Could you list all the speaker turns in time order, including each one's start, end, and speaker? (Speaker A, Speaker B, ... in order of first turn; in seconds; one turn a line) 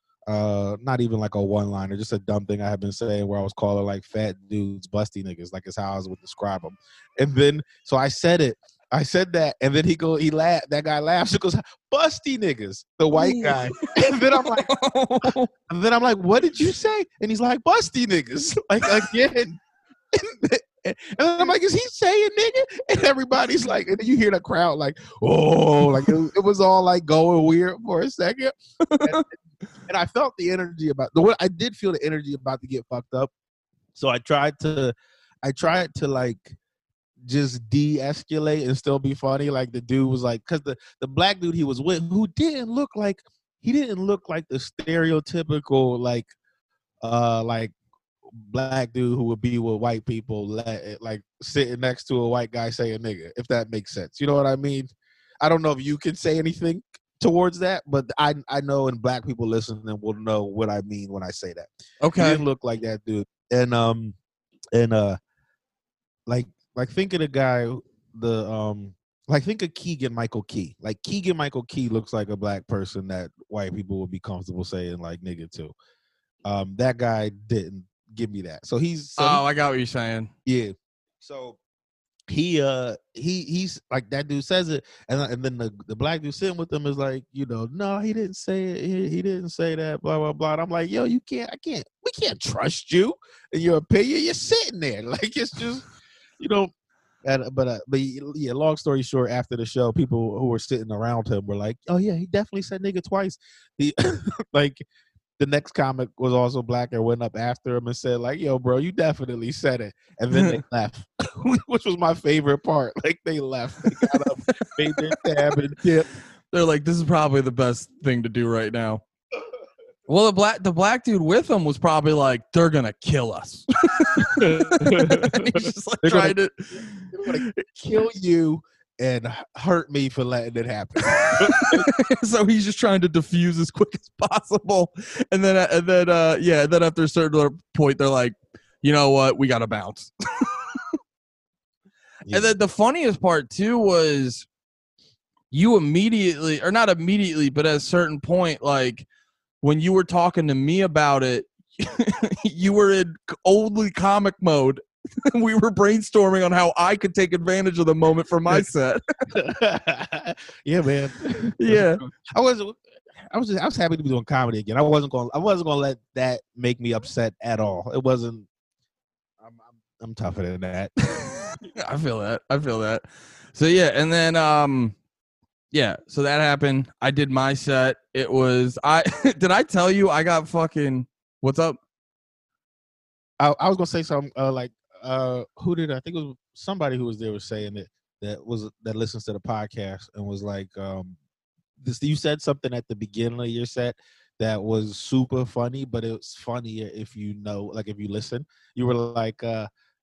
Speaker A: 0.3-14.7
Speaker B: 13.1-13.6
Speaker B: 14.3-15.5
Speaker A: 15.7-19.6
Speaker A: 20.1-29.2
Speaker B: 28.8-29.2
Speaker A: 29.9-33.3
Speaker A: 33.9-36.5
Speaker A: 37.2-46.3
Speaker A: 47.0-47.7
Speaker A: 48.3-64.2
Speaker B: 62.0-62.4
Speaker A: 64.7-65.2
Speaker A: 66.3-75.7
Speaker A: 76.5-79.4
Speaker B: 79.2-80.3
Speaker A: 80.5-81.6
Speaker A: 82.3-95.9
Speaker A: 96.4-96.7
Speaker A: 97.2-104.8
Speaker A: 105.4-116.0
Speaker B: 110.3-110.6
Speaker B: 116.5-119.0
Speaker B: 120.1-127.5
Speaker A: 124.2-126.4
Speaker A: 127.1-131.9
Speaker B: 131.2-140.1
Speaker A: 142.3-142.5
Speaker B: 142.3-144.5
Speaker B: 145.5-149.1
Speaker B: 149.6-159.0
Speaker A: 159.3-168.5
Speaker B: 161.6-162.0
Speaker A: 169.4-170.9
Speaker B: 171.4-174.9
Speaker B: 175.7-181.8
Speaker A: 183.4-191.2
Speaker A: 191.8-199.7